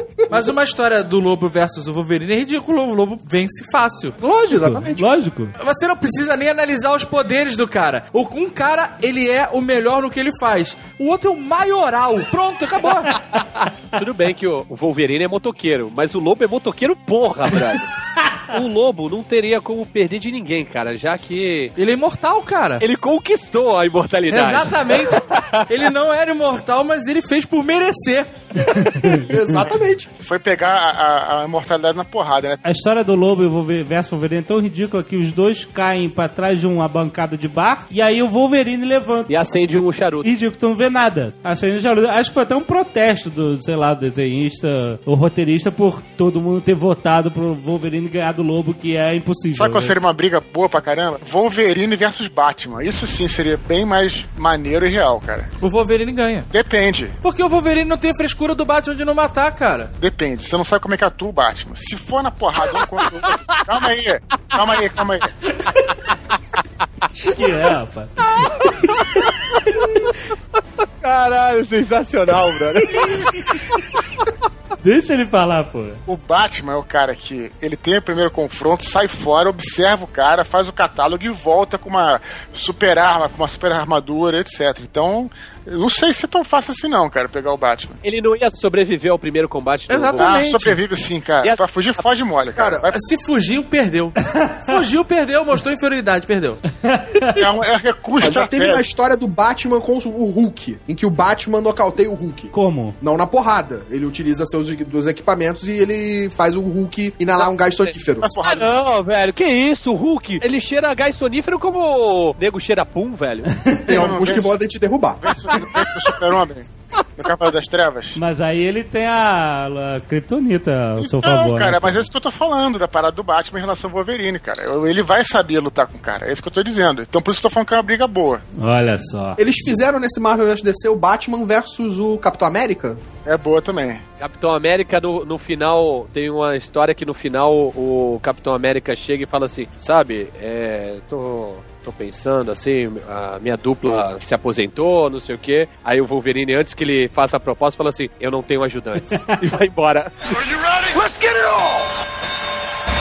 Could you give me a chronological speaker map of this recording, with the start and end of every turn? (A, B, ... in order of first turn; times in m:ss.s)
0:00.3-0:04.2 A
0:04.2-0:05.0 B
0:04.5-0:05.5 C
0:05.6-0:13.2 A
0:13.3-0:17.9 D
0:18.5-0:21.7 D
0:21.8-0:22.8 A
0:22.8-0:25.6 D
0:24.3-0:28.3 A
0:28.7-0:29.3 C
0:29.2-0:30.1 B
0:30.2-0:32.6 E
0:32.6-0:39.3 C
0:39.3-0:40.3 D
0:40.2-0:49.9 C
0:49.5-0:55.5 E
0:55.6-0:56.5 A
0:56.5-0:57.1 E
0:57.2-0:59.9 A
1:00.0-1:05.3 E
1:02.8-1:03.6 D
1:05.6-1:06.0 C
1:07.1-1:10.1 C
1:08.4-1:09.2 D
1:11.0-1:14.0 D
1:13.0-1:13.4 C
1:14.8-1:16.0 C
1:16.1-1:28.0 E
1:28.0-1:30.4 D
1:29.9-1:30.8 A
1:30.1-1:33.0 E
1:31.4-1:32.0 D
1:32.6-1:32.9 B
1:32.9-1:36.6 A
1:34.3-1:34.7 C
1:36.8-1:37.4 C
1:37.3-1:38.8 E
1:38.2-1:48.3 B
1:42.5-1:43.0 C
1:47.4-1:53.5 D
1:48.2-1:48.7 E
1:53.6-1:53.8 C
1:53.9-1:55.2 B
1:53.9-1:54.6 E
1:55.2-1:58.2 E
1:55.5-1:56.2 D
1:58.1-2:02.1 C
2:01.0-2:08.4 E
2:08.6-2:09.4 C
2:09.4-2:13.0 B
2:13.2-2:14.0 E
2:14.2-2:31.9 D